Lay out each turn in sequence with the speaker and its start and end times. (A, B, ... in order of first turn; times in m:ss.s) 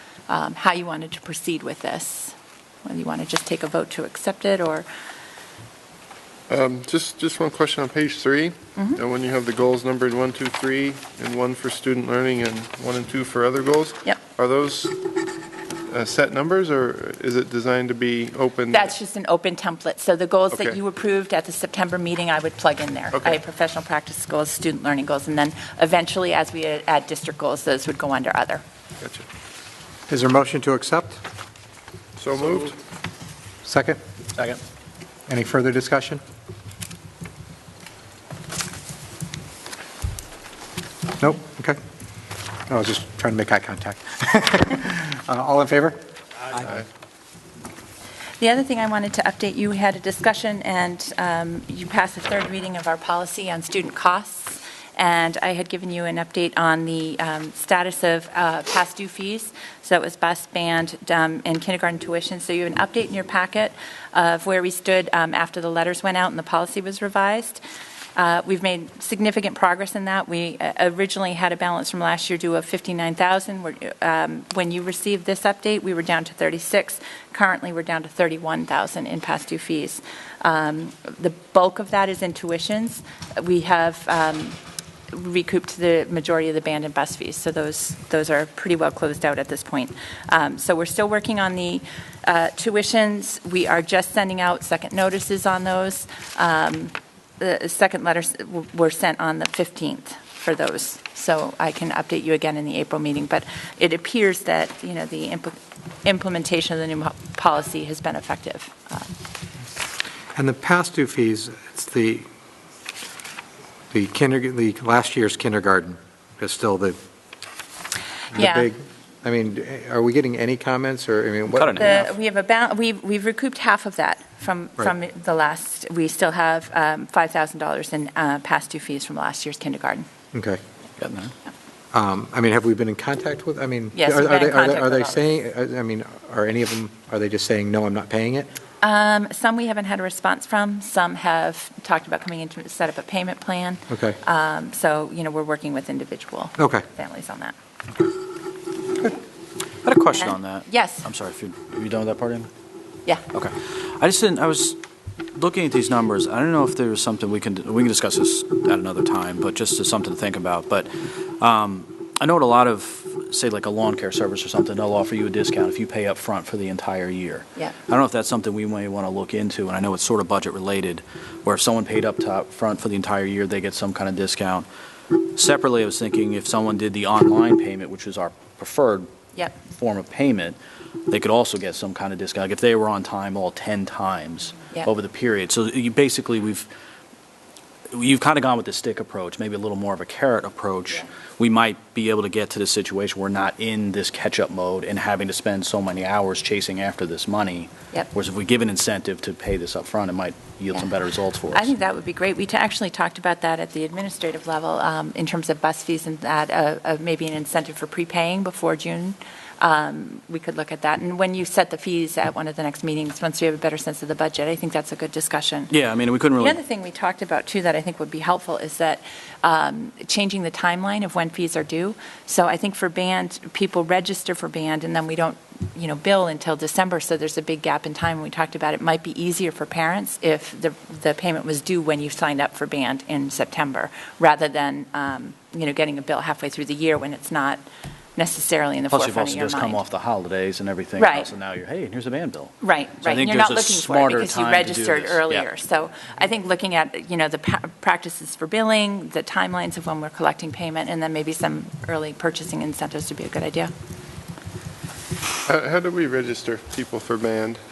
0:00.3-0:02.3 A
0:02.8-0:04.9 A
0:06.5-0:15.2 B
0:15.9-0:19.0 B
0:18.7-0:28.6 A
0:20.5-0:20.8 B
0:23.1-0:23.4 B
0:29.0-0:29.3 B
0:30.1-0:31.2 C
0:32.2-0:32.8 B
0:33.6-0:34.0 C
0:35.3-0:36.2 C
0:41.2-0:41.8 C
0:42.7-0:46.0 C
0:46.5-0:46.8 C
0:48.4-1:07.6 A
1:08.2-1:24.6 A
1:25.1-1:49.1 A
1:50.4-1:52.2 C
1:53.9-1:57.0 C
1:58.3-1:58.7 A
1:58.3-2:02.0 C
2:01.5-2:02.1 D
2:01.8-2:10.1 A
2:10.3-2:10.6 C
2:11.0-2:11.3 D
2:11.9-2:18.5 C
2:13.9-2:15.2 A
2:18.8-2:27.5 A
2:23.9-2:24.2 C
2:26.6-2:26.8 C
2:29.8-2:32.5 D
2:30.1-2:31.1 A
2:33.3-2:34.8 D
2:35.4-2:54.7 D
2:55.4-3:00.6 D
3:01.1-3:06.7 D
3:07.9-3:21.7 D
3:21.5-3:35.7 A
3:35.7-3:36.6 D
3:36.4-3:57.6 A
3:58.2-3:59.8 A
3:58.9-4:05.5 D
4:01.0-4:01.3 A
4:02.6-4:13.7 A
4:15.5-4:17.6 B